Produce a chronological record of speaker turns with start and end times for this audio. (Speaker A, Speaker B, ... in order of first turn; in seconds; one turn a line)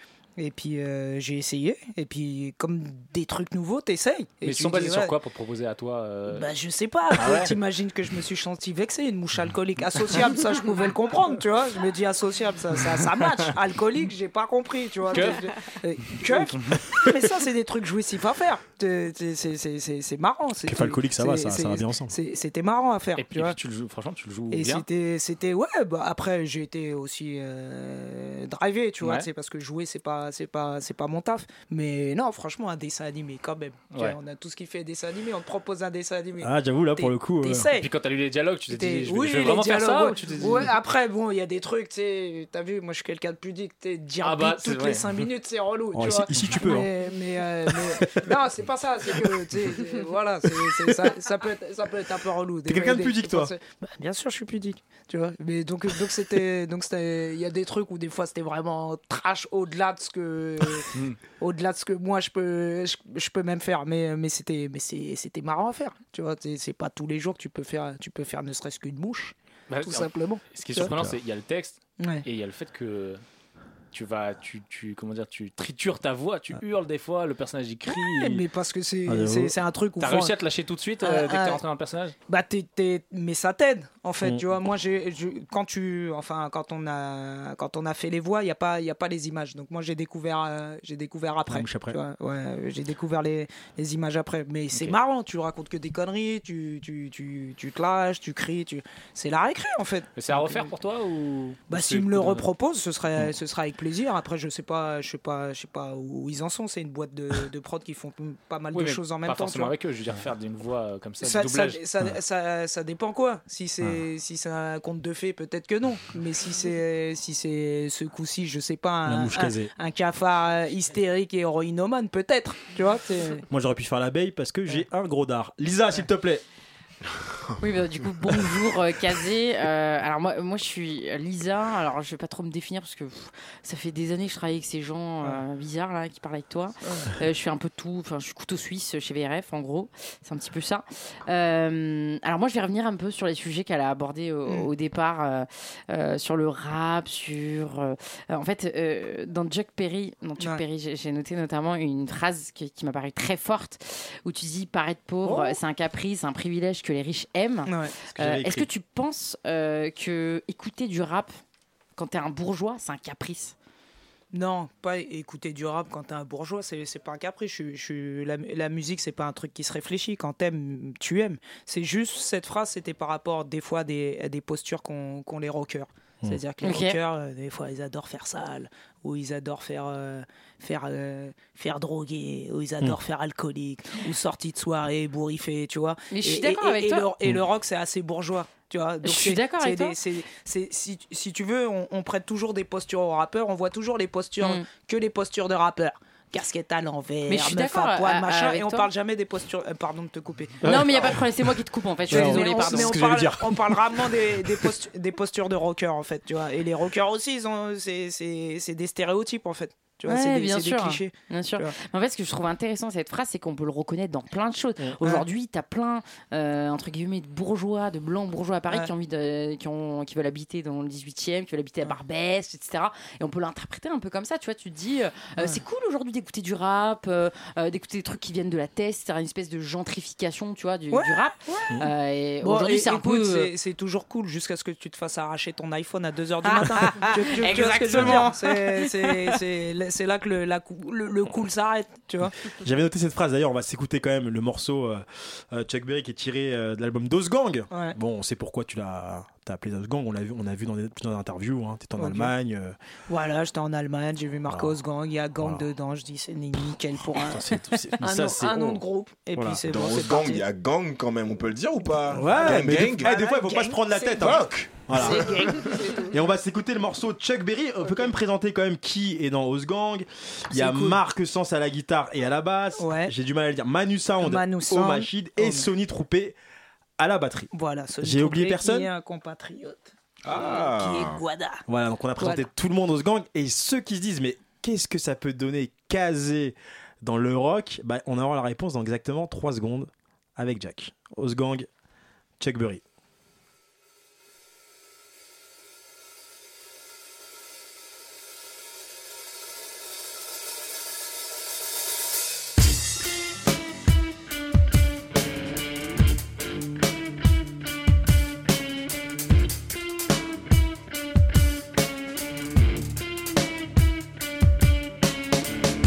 Speaker A: 0.4-5.1
Speaker B: 4.4-6.5
Speaker A: 6.3-23.6
Speaker B: 7.2-7.6
Speaker B: 15.1-15.5
Speaker B: 16.2-17.1
Speaker C: 20.7-22.1
Speaker B: 23.2-24.9
Speaker A: 24.5-37.9
Speaker B: 29.0-29.3
Speaker B: 33.9-34.2
Speaker C: 36.4-37.7
Speaker B: 37.8-40.7
Speaker A: 38.7-60.9
Speaker B: 44.2-45.2
Speaker C: 45.9-46.9
Speaker C: 50.6-51.1
Speaker C: 52.7-53.5
Speaker A: 61.4-70.9
Speaker B: 69.7-73.2
Speaker C: 70.8-71.2
Speaker A: 72.0-72.2
Speaker B: 73.9-78.4
Speaker A: 77.9-80.3
Speaker C: 79.1-79.5
Speaker B: 80.0-82.2
Speaker A: 81.0-81.6
Speaker A: 82.3-100.7
Speaker C: 91.5-92.0
Speaker B: 100.2-102.5
Speaker A: 101.7-109.7
Speaker B: 108.7-111.8
Speaker A: 111.2-123.4
Speaker C: 119.1-119.7
Speaker C: 123.5-126.4
Speaker D: 127.6-161.3
Speaker A: 136.8-137.1
Speaker C: 155.2-155.6
Speaker A: 157.7-157.9
Speaker C: 158.1-158.7
Speaker D: 162.0-163.6
Speaker A: 164.3-201.1
Speaker D: 176.6-177.0
Speaker D: 186.1-187.1
Speaker D: 189.0-190.0
Speaker D: 194.4-194.7
Speaker D: 197.3-198.9
Speaker C: 200.6-201.2
Speaker D: 200.6-203.1
Speaker C: 202.1-203.9
Speaker A: 202.1-211.7
Speaker D: 210.1-233.5
Speaker A: 230.9-231.8
Speaker A: 232.4-242.3
Speaker D: 237.5-238.2
Speaker C: 237.9-238.3
Speaker C: 242.5-252.8
Speaker A: 247.7-248.0
Speaker A: 252.0-252.3
Speaker A: 253.1-260.4
Speaker C: 254.5-254.8
Speaker C: 257.1-258.8
Speaker C: 259.4-259.6
Speaker E: 259.6-263.2
Speaker C: 262.1-276.4
Speaker A: 262.3-266.1
Speaker E: 264.2-265.5
Speaker A: 270.5-271.0
Speaker A: 272.8-273.1
Speaker A: 274.2-275.7
Speaker C: 277.0-278.9
Speaker A: 277.5-281.6
Speaker E: 280.2-281.2
Speaker C: 281.7-291.7
Speaker A: 282.2-282.5
Speaker C: 292.4-292.8